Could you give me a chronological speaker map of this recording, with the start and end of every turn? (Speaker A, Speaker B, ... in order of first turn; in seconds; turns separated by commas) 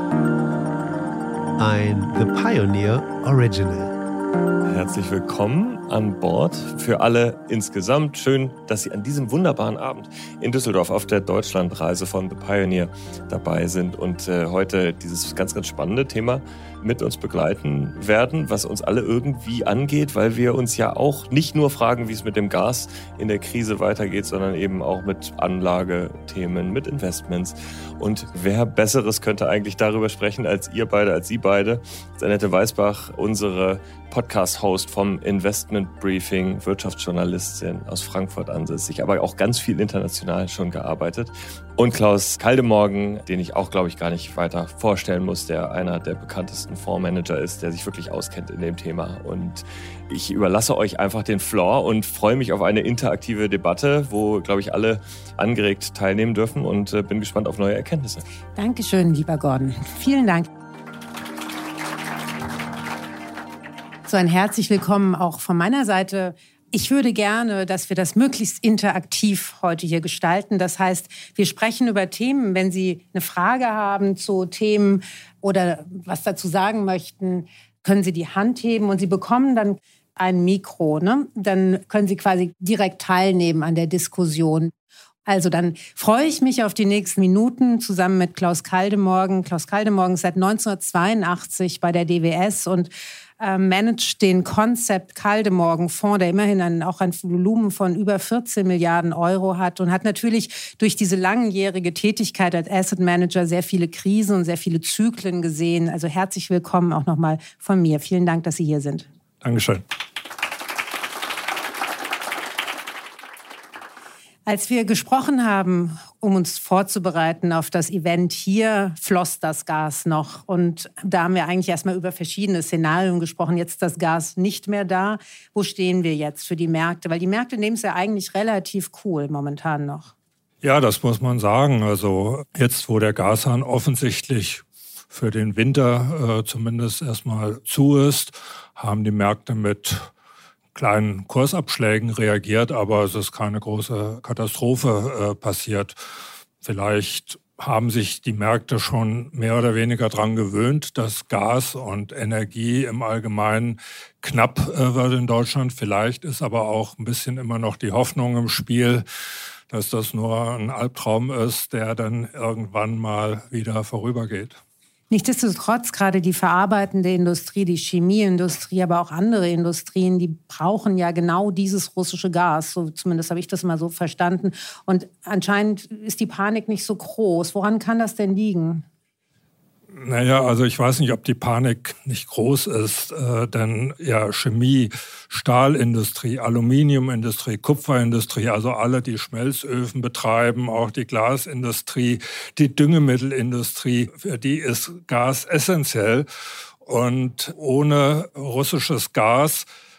Speaker A: 1.6-4.0, Speaker B: 4.7-58.2, Speaker C: 58.5-60.5, Speaker C: 64.0-84.7, Speaker C: 85.3-109.1, Speaker D: 109.4-109.8, Speaker C: 114.5-130.1, Speaker D: 130.6-140.1, Speaker D: 140.8-146.0, Speaker D: 146.6-159.0, Speaker D: 159.7-164.6, Speaker C: 165.1-178.8, Speaker D: 179.9-196.3, Speaker D: 196.8-199.7